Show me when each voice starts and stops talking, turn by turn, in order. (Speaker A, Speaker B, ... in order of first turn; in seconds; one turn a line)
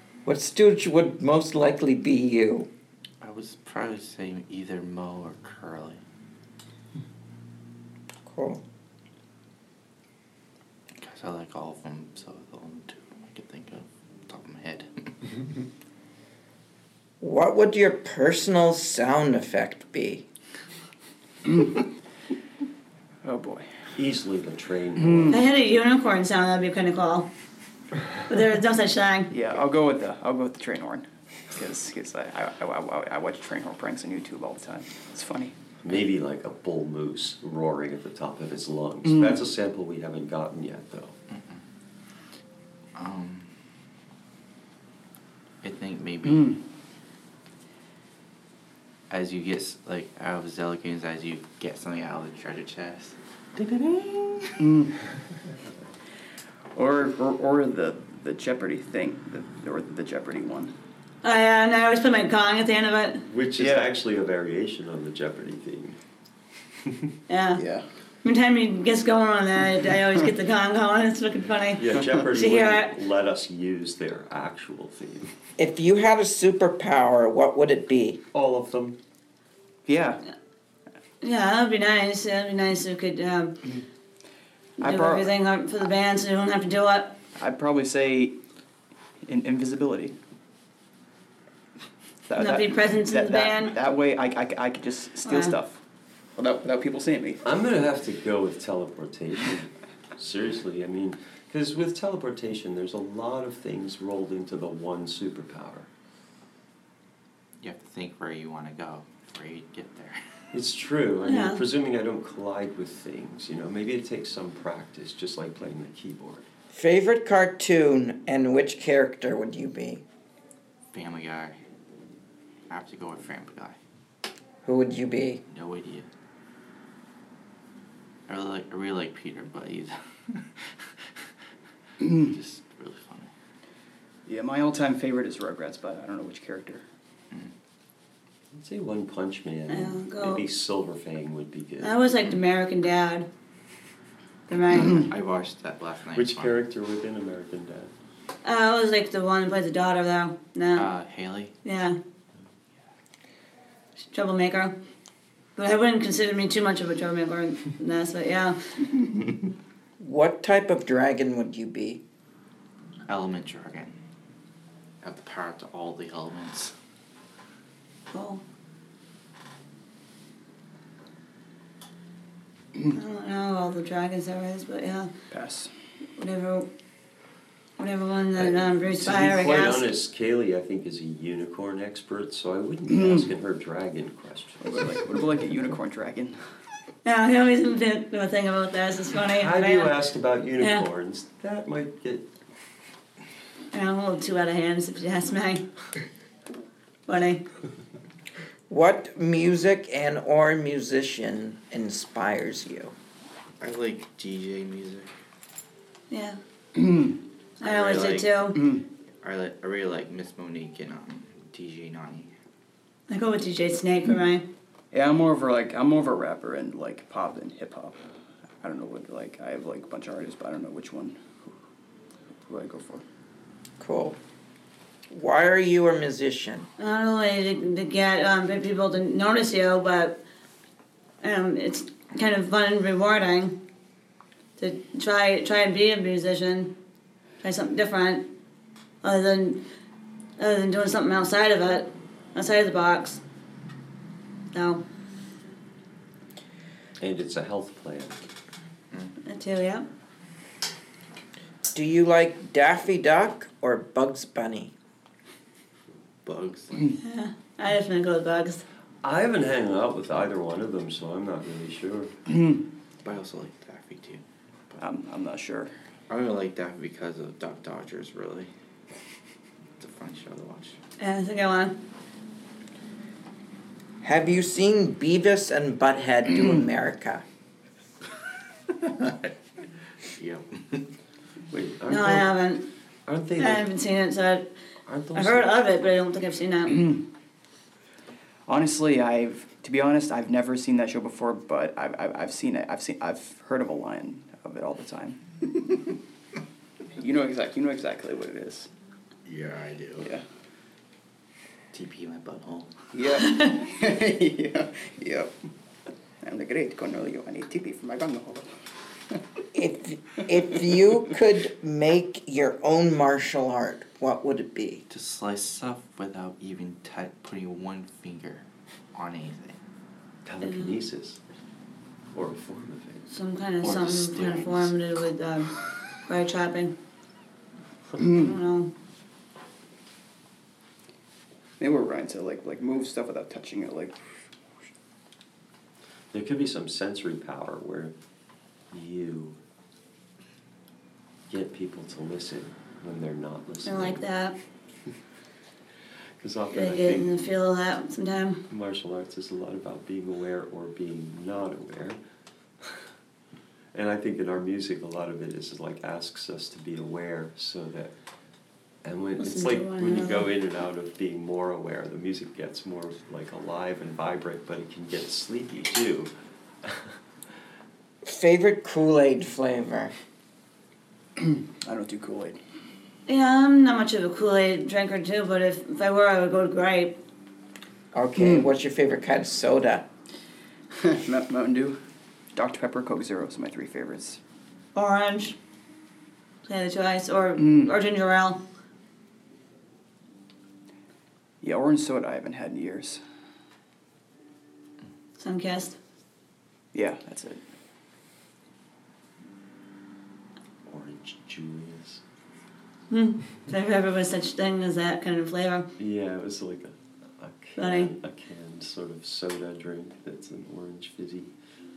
Speaker A: 0.2-2.7
Speaker B: 3.2-6.0
Speaker A: 8.2-8.6
Speaker B: 11.0-15.3
Speaker A: 17.2-20.2
Speaker C: 23.2-23.7
Speaker D: 23.9-25.4
Speaker C: 25.0-25.3
Speaker E: 25.3-27.3
Speaker E: 28.3-29.3
Speaker C: 29.3-35.5
Speaker D: 35.8-41.1
Speaker C: 39.0-39.4
Speaker B: 41.3-41.6
Speaker B: 43.0-43.6
Speaker B: 45.6-46.6
Speaker C: 46.2-46.6
Speaker B: 49.1-53.2
Speaker C: 54.6-54.9
Speaker C: 56.7-60.7
Speaker E: 61.2-63.2
Speaker D: 63.3-66.0
Speaker C: 63.6-63.8
Speaker E: 67.3-67.6
Speaker C: 67.5-67.8
Speaker E: 68.2-72.9
Speaker D: 71.8-75.3
Speaker A: 75.6-78.2
Speaker D: 78.3-79.0
Speaker C: 79.8-80.2
Speaker E: 81.2-83.6
Speaker E: 84.8-87.2
Speaker C: 84.8-85.3
Speaker C: 87.3-88.4
Speaker C: 89.2-90.1
Speaker C: 92.2-95.8
Speaker E: 92.3-93.7
Speaker E: 95.2-95.5
Speaker C: 96.3-97.5
Speaker D: 97.4-105.9
Speaker B: 107.6-110.2
Speaker D: 110.5-116.5
Speaker E: 111.2-111.6
Speaker A: 116.7-120.0
Speaker B: 120.9-121.6
Speaker B: 122.7-123.8
Speaker A: 124.6-125.4
Speaker B: 125.5-126.1
Speaker B: 128.3-131.1
Speaker B: 132.1-133.3
Speaker C: 134.2-136.8
Speaker D: 138.5-141.9
Speaker E: 139.7-140.4
Speaker E: 141.8-143.3
Speaker E: 144.5-145.0
Speaker B: 144.9-146.6
Speaker D: 146.1-147.9
Speaker E: 148.4-150.9
Speaker B: 150.8-151.5
Speaker E: 151.6-152.0
Speaker E: 154.1-154.7
Speaker E: 155.6-158.8
Speaker A: 160.0-162.0
Speaker B: 163.1-163.9
Speaker B: 165.0-166.7
Speaker E: 168.1-168.4
Speaker E: 172.9-175.1
Speaker C: 175.3-175.7
Speaker E: 176.2-176.7
Speaker E: 177.8-179.8
Speaker D: 178.4-184.7
Speaker C: 182.9-183.3
Speaker C: 184.6-186.6
Speaker E: 187.0-189.9
Speaker D: 189.3-192.3
Speaker E: 190.6-190.8
Speaker E: 193.7-195.7
Speaker E: 197.1-197.4
Speaker A: 198.7-202.9
Speaker B: 203.6-205.1
Speaker E: 206.1-206.4
Speaker C: 206.8-207.2
Speaker B: 207.6-208.3
Speaker E: 207.6-208.6
Speaker C: 208.6-208.8
Speaker B: 209.2-212.3
Speaker E: 213.1-214.4
Speaker C: 214.9-218.0
Speaker C: 218.6-221.5
Speaker C: 222.5-223.0
Speaker A: 223.8-224.2
Speaker A: 225.1-226.7
Speaker E: 226.8-230.2
Speaker E: 231.2-233.6
Speaker E: 234.6-236.7
Speaker E: 237.4-238.3
Speaker E: 239.0-239.6
Speaker E: 240.4-243.2
Speaker E: 244.5-244.8
Speaker D: 247.0-248.2
Speaker E: 249.2-249.8
Speaker A: 251.7-254.7
Speaker B: 256.2-256.8
Speaker E: 257.0-258.6
Speaker D: 259.0-262.1
Speaker B: 263.0-264.2
Speaker C: 264.7-265.7
Speaker B: 266.1-268.5
Speaker B: 269.8-270.8
Speaker E: 271.0-271.8
Speaker A: 274.0-277.2
Speaker B: 278.8-279.3
Speaker B: 280.0-280.9
Speaker D: 281.5-282.4
Speaker E: 281.9-282.6
Speaker D: 283.1-283.7
Speaker E: 283.4-284.5
Speaker D: 284.9-285.5
Speaker E: 285.1-286.9
Speaker C: 288.5-295.8
Speaker C: 297.0-298.7
Speaker B: 299.2-300.1
Speaker C: 300.0-300.2
Speaker B: 301.7-302.9
Speaker C: 302.9-305.3
Speaker C: 306.2-308.5
Speaker A: 309.5-314.8
Speaker B: 314.9-319.6
Speaker D: 320.2-321.2
Speaker E: 320.4-320.7
Speaker D: 322.1-323.1
Speaker E: 323.1-325.5
Speaker B: 323.6-324.7
Speaker E: 326.1-326.7
Speaker C: 328.0-328.3
Speaker E: 328.2-328.7
Speaker C: 331.6-334.0
Speaker D: 336.1-337.9
Speaker D: 338.7-339.4
Speaker D: 341.3-344.0
Speaker E: 343.6-344.4
Speaker D: 346.2-347.1
Speaker E: 346.5-348.4
Speaker D: 348.5-352.0
Speaker D: 353.7-357.9
Speaker D: 358.8-366.1
Speaker E: 359.2-360.3
Speaker D: 366.6-367.0
Speaker A: 368.0-369.9
Speaker C: 371.6-372.4
Speaker E: 373.1-377.0
Speaker A: 377.9-379.9
Speaker C: 378.2-378.5
Speaker C: 380.7-381.8
Speaker C: 382.3-384.2
Speaker E: 384.7-385.4
Speaker E: 386.4-388.4
Speaker C: 387.4-387.7
Speaker C: 391.4-393.0
Speaker E: 395.2-395.8
Speaker C: 396.7-397.4
Speaker D: 400.7-402.0
Speaker E: 402.9-405.7
Speaker D: 405.8-411.3
Speaker E: 407.6-407.9